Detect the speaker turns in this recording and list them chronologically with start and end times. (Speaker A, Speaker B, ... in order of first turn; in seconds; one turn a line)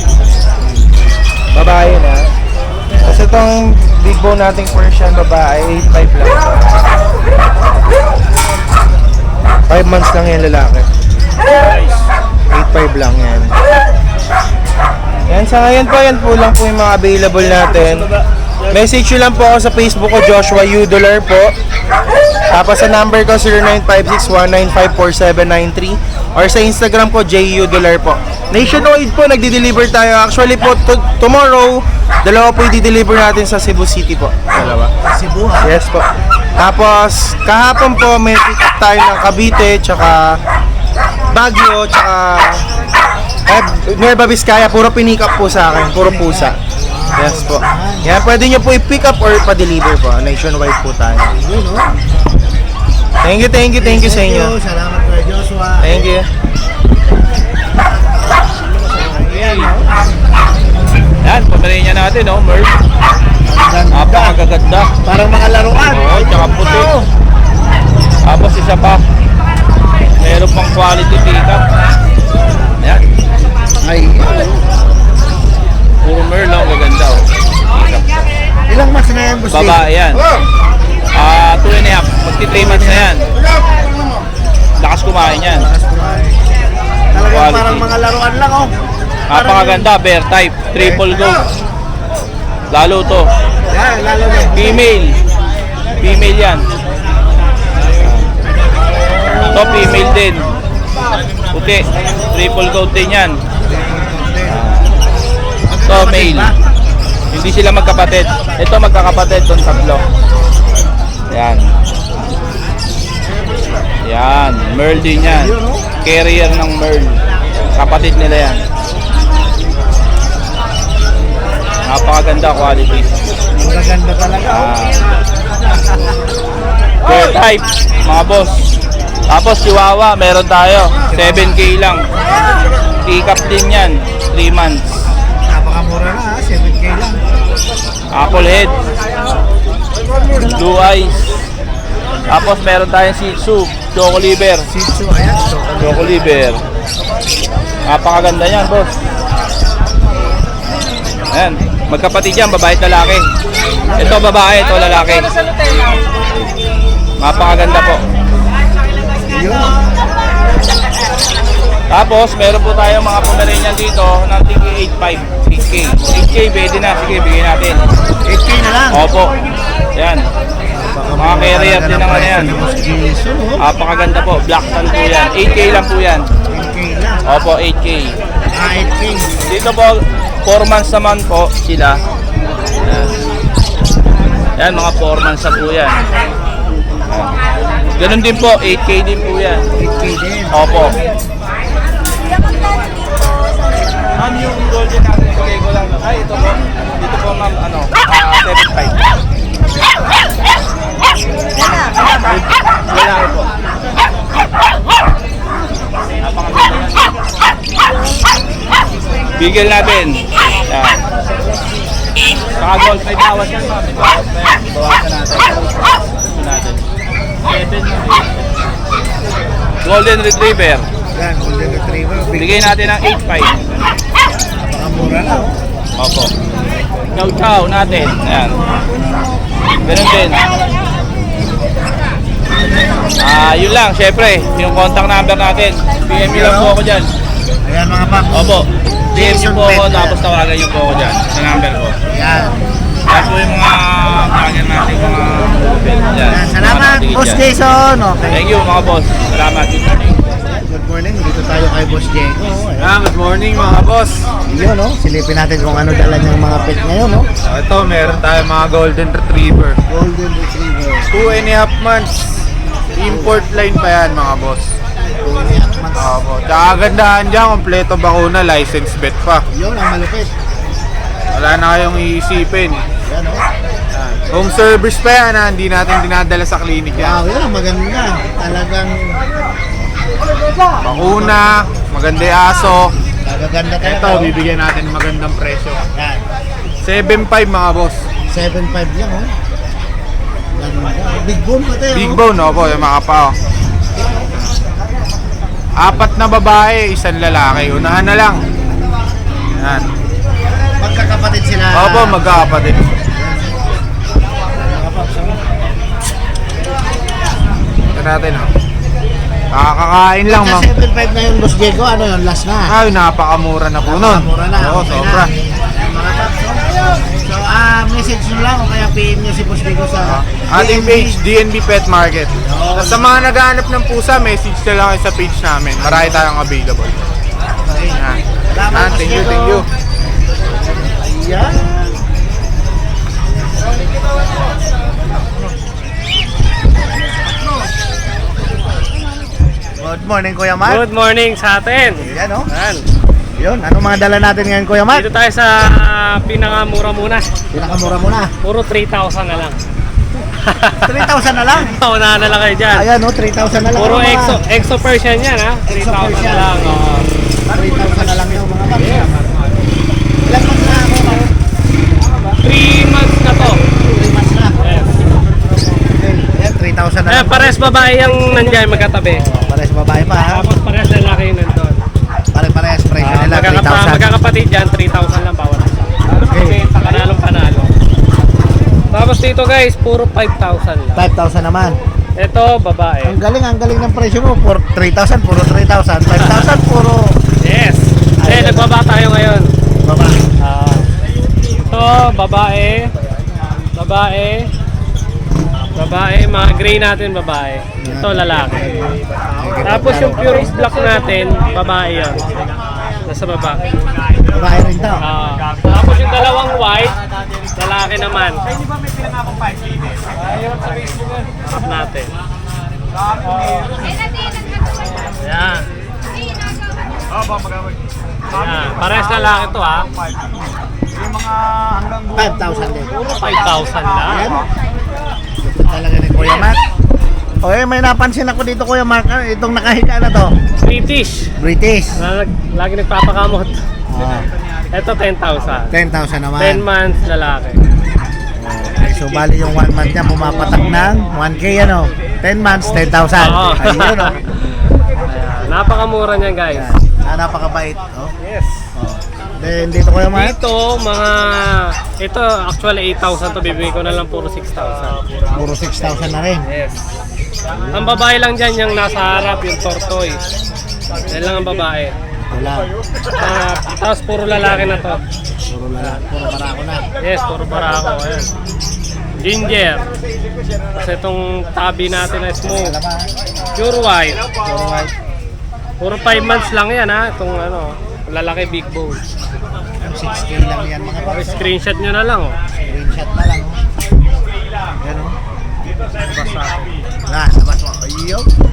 Speaker A: 1.5-2.3
Speaker A: 3.0-7.0
Speaker A: 9.7-10.9
Speaker A: 12.5-13.5
Speaker A: 15.3-18.1
Speaker A: 18.7-21.5
Speaker A: 22.5-34.9
Speaker B: 28.6-28.9
Speaker B: 35.0-35.7
Speaker A: 35.6-36.0
Speaker A: 36.6-40.4
Speaker A: 41.3-42.6
Speaker A: 43.5-46.5
Speaker B: 46.0-48.1
Speaker A: 47.2-51.3
Speaker B: 51.3-51.9
Speaker A: 53.2-54.5
Speaker B: 53.8-56.1
Speaker A: 55.8-56.2
Speaker B: 58.7-59.9
Speaker C: 61.2-62.7
Speaker B: 63.5-64.4
Speaker C: 63.9-64.9
Speaker B: 65.0-67.1
Speaker C: 65.8-66.9
Speaker C: 68.3-69.0
Speaker C: 70.2-71.6
Speaker B: 73.8-74.6
Speaker C: 76.0-77.2
Speaker C: 77.7-78.1
Speaker B: 78.7-79.8
Speaker C: 79.5-80.2
Speaker C: 81.2-83.3
Speaker B: 82.5-83.1
Speaker C: 84.8-85.7
Speaker B: 85.5-86.4
Speaker B: 87.1-88.7
Speaker C: 87.3-87.8
Speaker B: 89.3-89.9
Speaker C: 89.3-91.4
Speaker B: 90.8-91.4
Speaker C: 92.7-93.3
Speaker B: 93.7-94.9
Speaker C: 94.5-95.2
Speaker C: 96.0-96.6
Speaker C: 99.4-100.4
Speaker C: 101.5-103.3
Speaker B: 103.6-104.7
Speaker C: 104.5-104.9
Speaker B: 105.7-106.6
Speaker C: 105.9-106.5
Speaker C: 107.3-110.0
Speaker C: 111.3-111.7
Speaker C: 114.1-115.5
Speaker B: 115.2-115.9
Speaker C: 116.0-117.2
Speaker C: 117.8-118.6
Speaker C: 121.9-123.1
Speaker B: 123.6-124.7
Speaker C: 124.5-125.0
Speaker C: 127.1-128.6
Speaker C: 129.3-132.0
Speaker B: 131.1-131.6
Speaker C: 133.1-135.0
Speaker B: 135.5-137.2
Speaker C: 138.1-138.8
Speaker C: 140.4-141.3
Speaker C: 142.3-144.7
Speaker B: 144.7-146.3
Speaker C: 145.8-146.6
Speaker C: 147.9-148.9
Speaker C: 151.3-153.2
Speaker B: 153.9-154.2
Speaker C: 154.0-155.3
Speaker C: 157.2-158.0
Speaker B: 159.3-159.8
Speaker C: 161.9-167.8
Speaker B: 168.3-169.0
Speaker C: 168.9-169.3
Speaker C: 170.0-170.2
Speaker B: 170.7-173.6
Speaker C: 171.2-172.5
Speaker C: 173.6-176.2
Speaker B: 176.5-177.2
Speaker C: 177.3-178.1
Speaker B: 178.5-179.3
Speaker C: 179.5-182.0
Speaker C: 182.8-183.1
Speaker C: 184.6-185.9
Speaker C: 188.0-189.6
Speaker B: 189.8-191.0
Speaker C: 190.5-191.0
Speaker C: 194.2-198.9
Speaker C: 202.0-203.5
Speaker C: 206.2-207.0
Speaker C: 209.4-211.0
Speaker C: 212.6-216.8
Speaker C: 217.5-218.3
Speaker C: 219.8-220.9
Speaker B: 221.2-222.9
Speaker C: 222.4-223.5
Speaker B: 224.6-225.5
Speaker C: 226.0-226.3
Speaker C: 227.2-228.6
Speaker C: 229.9-230.4
Speaker C: 233.2-237.1
Speaker B: 236.2-236.8
Speaker B: 237.7-238.6
Speaker C: 238.3-241.9
Speaker B: 239.1-240.2
Speaker B: 242.1-242.6
Speaker C: 243.1-247.4
Speaker B: 246.3-248.5
Speaker C: 248.3-250.2
Speaker B: 250.7-252.9
Speaker D: 252.8-254.2
Speaker B: 254.5-257.3
Speaker D: 257.4-259.8
Speaker B: 259.9-261.4
Speaker D: 261.1-262.1
Speaker D: 263.0-264.6
Speaker B: 263.1-263.4
Speaker B: 265.2-266.2
Speaker D: 266.0-269.4
Speaker B: 269.5-270.3
Speaker D: 271.3-272.8
Speaker B: 273.1-273.4
Speaker D: 274.0-277.2
Speaker B: 276.9-279.2
Speaker D: 280.8-282.9
Speaker B: 280.9-281.5
Speaker B: 283.2-284.3
Speaker D: 283.8-285.8
Speaker B: 285.9-286.2
Speaker D: 286.8-288.0
Speaker B: 288.3-289.3
Speaker B: 290.6-292.2
Speaker D: 291.9-293.3
Speaker D: 295.8-298.4
Speaker D: 299.6-299.8
Speaker B: 300.8-303.6
Speaker D: 301.7-302.9
Speaker B: 304.6-305.4
Speaker D: 307.9-308.5
Speaker D: 309.5-310.7
Speaker B: 310.3-312.7
Speaker D: 312.7-315.3
Speaker B: 313.8-321.2
Speaker D: 320.1-327.0
Speaker B: 322.4-323.2
Speaker B: 325.8-326.2
Speaker B: 327.7-328.0
Speaker B: 328.5-329.6
Speaker D: 328.7-329.6
Speaker B: 330.6-332.0
Speaker B: 339.8-340.8
Speaker E: 340.7-342.8
Speaker B: 342.0-342.5
Speaker B: 343.4-345.1
Speaker E: 344.9-347.2
Speaker B: 347.5-348.3
Speaker E: 348.4-349.6
Speaker E: 350.4-351.0
Speaker B: 350.8-351.8
Speaker E: 351.6-352.9
Speaker B: 352.7-354.4
Speaker E: 353.8-357.1
Speaker B: 355.7-356.8
Speaker B: 357.5-359.1
Speaker E: 358.8-359.4
Speaker B: 360.3-361.3
Speaker E: 362.3-363.6
Speaker B: 363.7-364.6
Speaker E: 364.6-364.9
Speaker B: 365.9-368.6
Speaker E: 367.1-369.2
Speaker B: 369.2-370.5
Speaker E: 370.3-371.8
Speaker B: 372.3-374.1
Speaker E: 373.0-376.0
Speaker B: 376.3-376.6
Speaker E: 376.6-377.7
Speaker E: 378.9-381.0
Speaker B: 380.9-381.8
Speaker E: 382.2-383.2
Speaker B: 383.1-387.1
Speaker E: 387.4-389.5
Speaker B: 388.2-388.7
Speaker B: 389.9-390.2
Speaker E: 390.4-390.9
Speaker E: 391.7-392.9
Speaker E: 393.8-394.5
Speaker E: 395.8-398.7
Speaker B: 397.8-400.6
Speaker E: 399.6-402.3
Speaker E: 403.1-403.6
Speaker B: 404.3-405.0
Speaker E: 405.0-407.0
Speaker E: 407.6-408.4
Speaker E: 410.2-412.1
Speaker E: 415.2-415.6
Speaker E: 418.3-419.9
Speaker D: 421.8-422.1
Speaker B: 422.1-423.0
Speaker E: 423.0-424.4
Speaker B: 424.0-424.4
Speaker B: 425.4-426.6
Speaker B: 427.4-430.3
Speaker E: 430.6-431.3
Speaker B: 431.4-432.0
Speaker E: 432.0-433.5
Speaker B: 433.9-434.2
Speaker E: 434.7-435.7
Speaker B: 435.7-436.6
Speaker E: 436.4-437.6
Speaker B: 438.4-444.2
Speaker E: 443.2-444.3
Speaker E: 445.1-446.7
Speaker B: 446.5-448.1
Speaker E: 448.2-448.6
Speaker B: 448.8-450.4
Speaker E: 450.1-455.0
Speaker B: 455.3-456.4
Speaker E: 456.5-456.8
Speaker B: 457.5-457.9
Speaker E: 457.7-460.2
Speaker E: 461.1-461.9
Speaker B: 462.3-462.7
Speaker E: 463.2-465.0
Speaker B: 465.5-466.9
Speaker E: 467.0-468.3
Speaker E: 469.2-469.9
Speaker E: 470.7-472.8
Speaker B: 472.4-473.1
Speaker E: 473.6-474.2
Speaker B: 474.5-474.9
Speaker E: 475.8-479.0
Speaker B: 479.8-481.6
Speaker E: 481.1-482.4
Speaker B: 482.7-483.6
Speaker B: 484.8-485.1
Speaker E: 486.0-486.7
Speaker B: 487.1-488.3